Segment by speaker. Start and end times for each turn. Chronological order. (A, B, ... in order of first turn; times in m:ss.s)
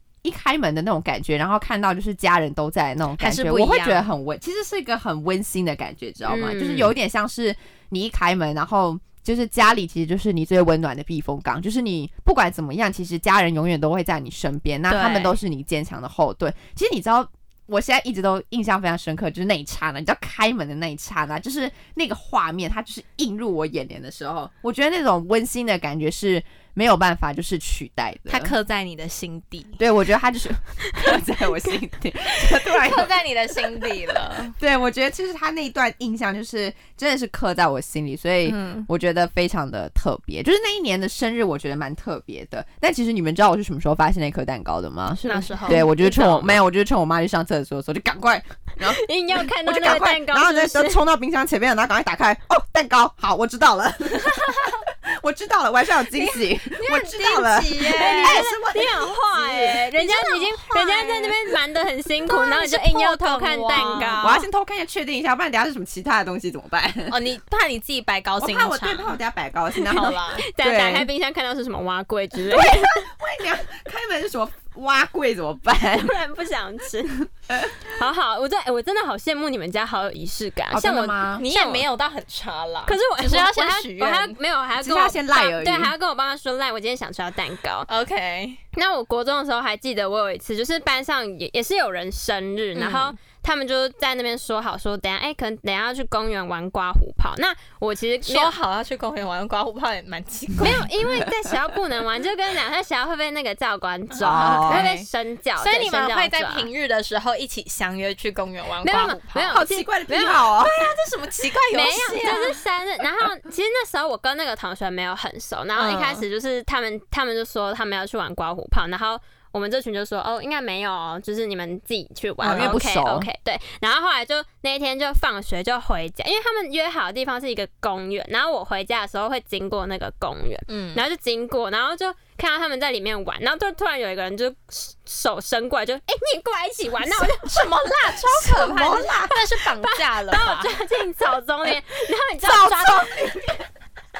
0:00.2-0:28.5 A
0:03.2-0:04.1 B
0:06.3-0:06.9 C
0:14.9-0:15.4 B
0:28.3-0:29.8 B
0:29.8-0:33.1 A
0:32.3-0:34.5 B
0:33.8-0:59.8 A
0:38.4-0:38.9 B
0:45.2-0:45.9 B
0:45.7-0:46.6 C
0:48.8-0:51.0 C
0:54.2-0:54.8 B
0:56.1-0:58.5 B
0:57.9-1:04.4 C
0:59.6-1:01.4 B
1:02.2-1:04.4 B
1:03.8-1:07.1 A
1:07.1-1:09.2 B
1:08.4-1:11.1 A
1:09.8-1:10.4 B
1:10.4-1:13.1 C
1:12.4-1:16.1 A
1:15.9-1:17.3 C
1:17.5-1:17.9 A
1:17.8-1:21.8 C
1:20.7-1:21.4 A
1:21.4-1:24.4 B
1:22.8-1:27.9 C
1:24.8-1:25.9 A
1:27.9-1:28.6 B
1:28.7-1:38.5 C
1:32.7-1:33.1 B
1:38.2-1:40.8 B
1:40.6-1:46.7 C
1:44.1-1:45.1 B
1:44.2-1:44.9 A
1:45.6-1:49.6 B
1:48.8-1:50.4 C
1:49.5-1:50.9 A
1:50.6-1:52.6 B
1:51.7-2:17.7 C
1:55.8-1:56.2 B
1:55.8-1:56.1 A
2:02.4-2:03.3 A
2:02.4-2:02.7 B
2:10.7-2:11.0 B
2:17.0-2:20.7 B
2:18.1-2:19.3 A
2:19.6-2:23.4 C
2:22.4-2:23.6 A